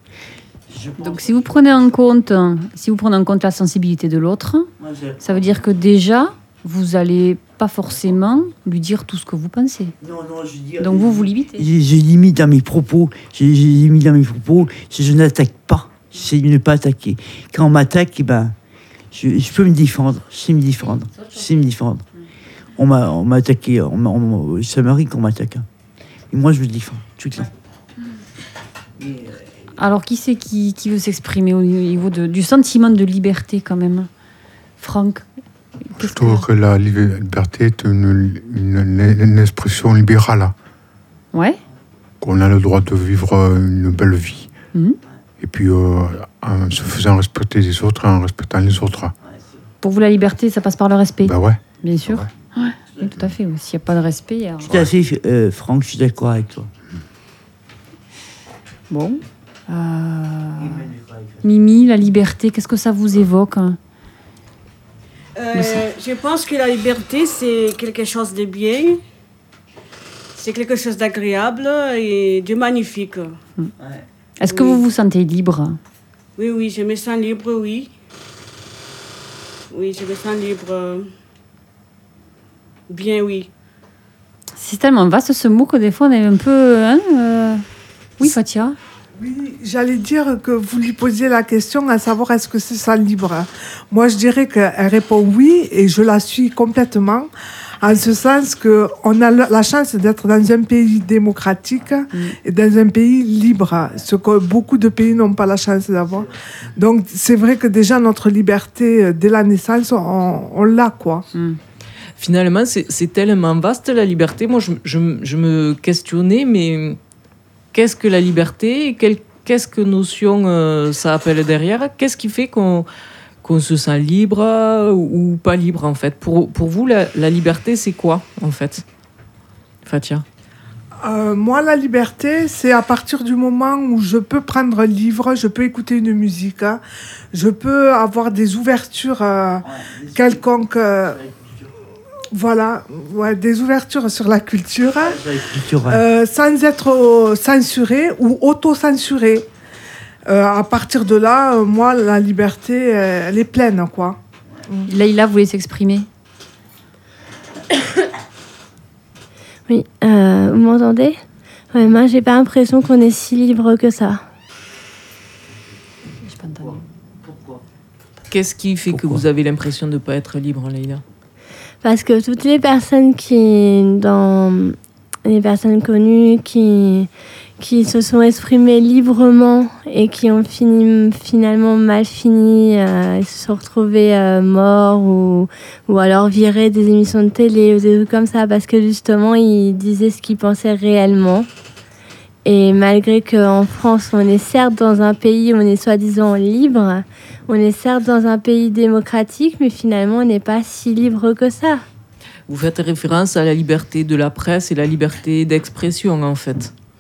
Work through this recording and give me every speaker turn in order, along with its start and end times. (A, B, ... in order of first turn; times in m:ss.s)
0:00.7-0:01.9 A
0:01.0-0:04.7 B
0:04.8-0:05.6 A
0:05.2-0:10.0 B
0:10.0-0:18.5 A
0:10.8-0:11.6 B
0:19.1-0:22.1 A
0:22.8-0:25.7 A
0:26.3-0:27.5 A
0:29.0-0:29.4 A
0:29.8-0:34.1 B
0:34.8-0:35.2 B
0:35.9-0:36.5 B
0:36.0-0:40.5 C
0:41.3-0:41.6 B
0:42.2-0:44.5 C
0:45.4-0:49.1 C
0:49.2-0:49.6 A
0:49.8-0:54.7 B
0:51.2-0:52.3 C
0:54.7-0:54.9 C
0:54.7-0:56.7 A
0:58.9-1:00.9 B
1:00.6-1:01.5 A
1:01.4-1:03.8 B
1:05.4-1:09.0 D
1:05.5-1:05.9 B
1:10.4-1:13.4 D
1:14.4-1:15.8 B
1:14.5-1:14.8 D
1:16.4-1:17.9 D
1:19.7-1:21.1 D
1:22.9-1:23.5 D
1:24.6-1:27.6 B
1:28.2-1:28.8 B
1:29.2-1:37.3 E
1:37.8-1:51.3 E
1:51.3-1:51.6 B
1:52.2-1:57.0 F
1:57.7-2:02.9 F
2:03.4-2:08.8 F
2:09.9-2:10.2 F
2:11.0-2:16.8 E
2:17.3-2:21.2 E
2:19.6-2:20.4 A
2:21.1-2:21.7 A
2:22.3-2:25.2 E
2:25.0-2:26.0 A
2:25.8-2:29.5 E
2:30.3-2:34.9 E
2:34.9-2:36.1 B
2:39.7-2:41.2 G
2:41.7-2:44.2 G
2:46.2-2:46.8 B
2:46.6-2:47.6 A
2:48.3-2:51.0 F
2:48.9-2:49.2 A
2:51.8-3:11.5 G
3:12.4-3:21.8 G
3:22.5-3:26.7 F